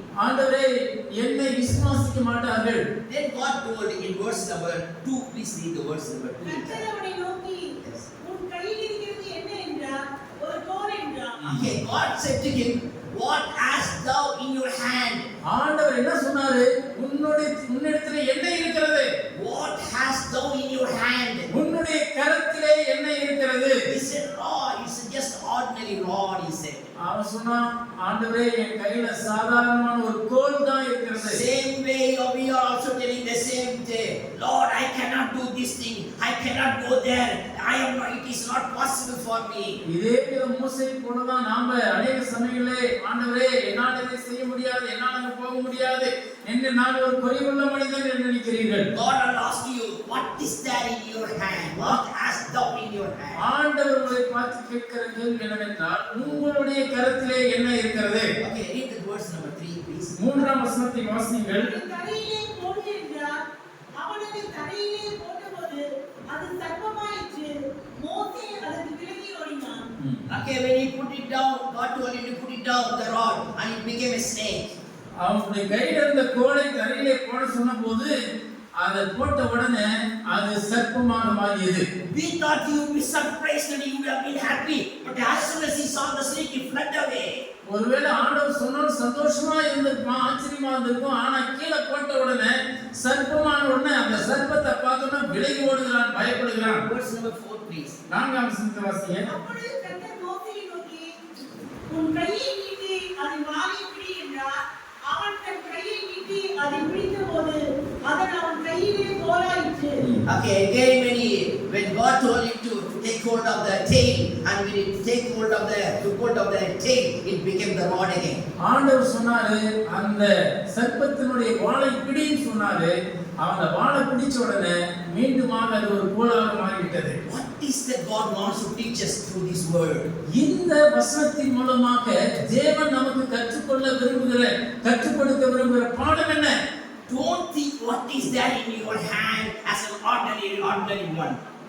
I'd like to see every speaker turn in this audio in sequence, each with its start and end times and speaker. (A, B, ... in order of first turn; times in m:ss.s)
0:00.2-0:02.8 A
0:03.1-0:06.8 B
0:06.4-0:07.7 C
0:07.8-0:08.1 B
0:08.2-0:11.4 C
0:11.4-0:11.7 A
0:11.5-0:15.3 B
0:15.4-0:19.1 A
0:19.3-0:21.5 B
0:21.5-0:23.8 A
0:23.9-0:26.9 B
0:27.0-0:31.4 A
0:31.2-0:39.8 B
0:39.9-0:48.9 A
0:48.9-0:53.4 B
0:53.4-0:58.3 A
0:58.4-1:00.2 B
1:00.2-1:01.8 A
1:01.6-1:03.3 C
1:04.0-1:05.8 C
1:06.3-1:09.8 C
1:10.0-1:10.2 A
1:10.3-1:14.7 B
1:15.2-1:18.1 A
1:18.8-1:21.8 A
1:22.1-1:27.4 B
1:27.7-1:36.8 A
1:36.8-1:38.0 B
1:38.1-1:39.3 A
1:39.2-1:41.0 C
1:41.9-1:44.5 C
1:45.1-1:50.0 C
1:50.2-1:58.4 B
1:58.6-2:02.9 A
2:03.4-2:07.2 A
2:07.2-2:10.1 B
2:10.4-2:16.5 A
2:17.1-2:21.4 B